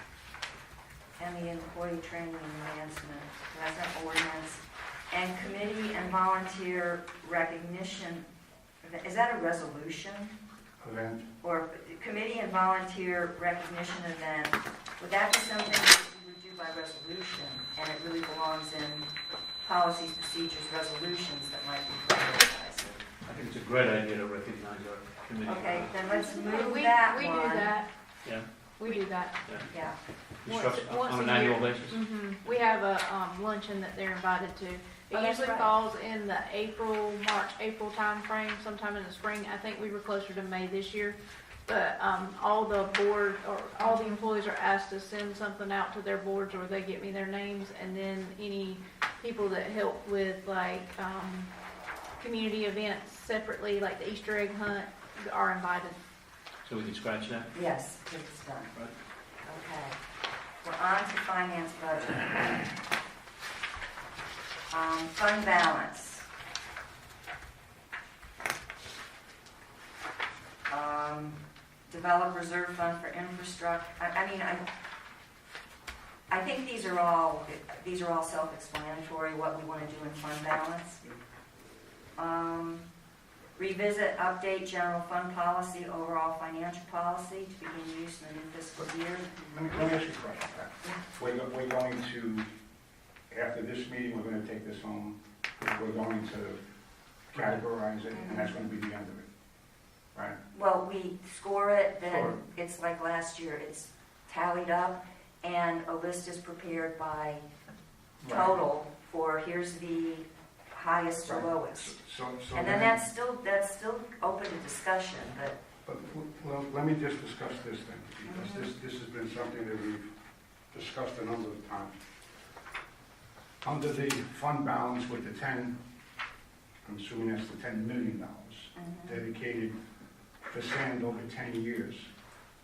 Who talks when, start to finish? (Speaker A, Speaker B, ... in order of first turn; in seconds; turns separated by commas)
Speaker A: 1.2-8.3, Speaker A: 8.8-10.3, Speaker B: 10.8-11.3, Speaker A: 11.4-19.1, Speaker A: 19.6-23.0, Speaker C: 23.2-26.0, Speaker A: 25.4-27.8, Speaker D: 26.1-27.9, Speaker C: 28.2-29.7, Speaker D: 28.8-29.6, Speaker A: 29.6-30.0, Speaker C: 30.4-32.6, Speaker D: 30.4-51.5, Speaker A: 35.1-35.8, Speaker D: 52.2-56.0, Speaker C: 56.6-57.5, Speaker A: 57.5-58.7, Speaker A: 59.5-60.0, Speaker A: 60.6-62.7, Speaker A: 64.7-66.3, Speaker A: 70.7-74.7, Speaker A: 76.3-81.0, Speaker A: 82.2-82.9, Speaker A: 83.6-89.8, Speaker B: 89.5-92.5, Speaker B: 93.3-96.6, Speaker B: 97.3-99.3, Speaker A: 98.1-98.5, Speaker A: 100.5-107.5, Speaker B: 102.1-102.4, Speaker B: 108.2-108.6, Speaker A: 108.3-111.9, Speaker B: 111.2-113.0, Speaker A: 112.5-115.6, Speaker B: 115.8-120.1, Speaker A: 118.3-118.7, Speaker B: 120.7-122.0, Speaker B: 123.6-125.8, Speaker B: 126.8-129.8, Speaker A: 128.8-129.2, Speaker B: 130.5-132.1